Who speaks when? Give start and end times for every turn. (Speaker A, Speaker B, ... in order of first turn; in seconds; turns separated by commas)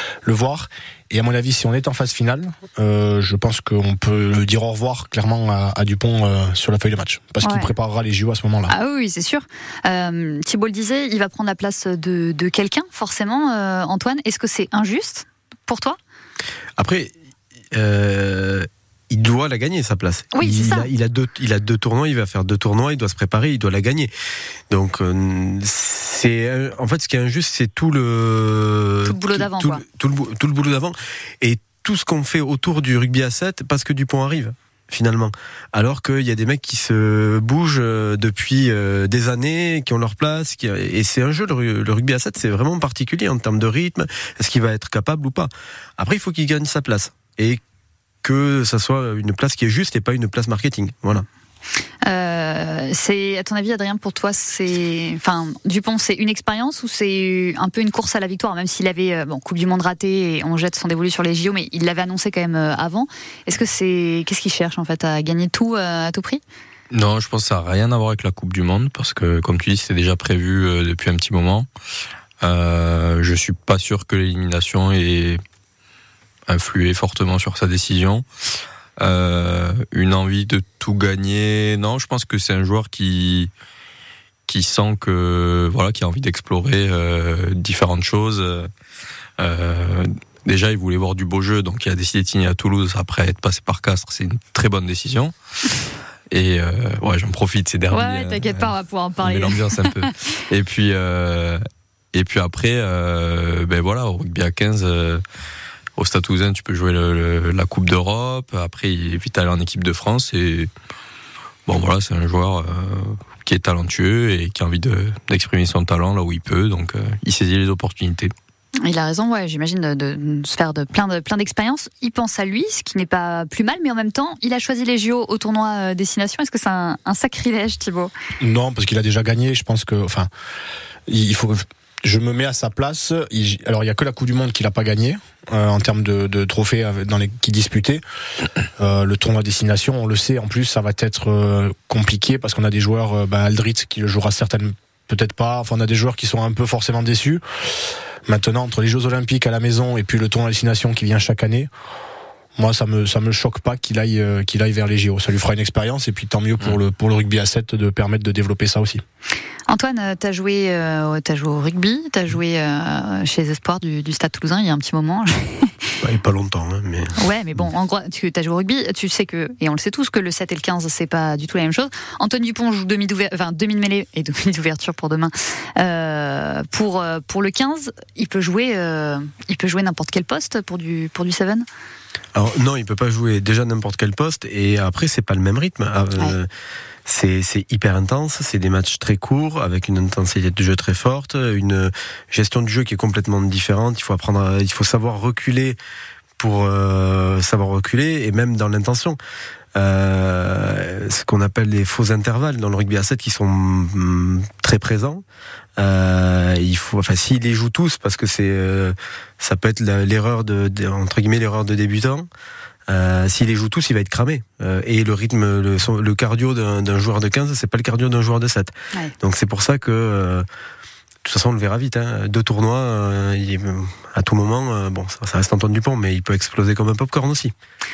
Speaker A: 0.2-8.7, Speaker B: 7.4-7.7, Speaker B: 8.7-16.0, Speaker C: 16.8-17.2, Speaker C: 17.7-24.1, Speaker B: 20.3-20.9, Speaker C: 24.7-47.6, Speaker B: 29.1-29.8, Speaker C: 48.2-51.3, Speaker B: 52.1-66.4, Speaker D: 66.9-71.7, Speaker D: 72.4-75.4, Speaker D: 76.5-78.2, Speaker D: 79.0-83.5, Speaker D: 84.5-88.7, Speaker D: 89.4-95.3, Speaker D: 96.3-101.6, Speaker B: 97.9-100.1, Speaker D: 102.1-105.2, Speaker D: 106.0-110.7, Speaker D: 111.7-118.3, Speaker B: 118.8-128.1, Speaker A: 128.4-130.3, Speaker A: 131.1-138.0, Speaker A: 138.8-147.4, Speaker A: 148.3-151.7, Speaker A: 152.6-159.0, Speaker B: 159.7-165.9, Speaker C: 166.0-167.2, Speaker B: 167.2-181.7, Speaker C: 182.3-186.5, Speaker C: 187.1-195.8, Speaker C: 196.4-199.2, Speaker C: 199.8-205.2, Speaker C: 205.8-212.3, Speaker C: 212.9-220.5, Speaker C: 221.2-227.5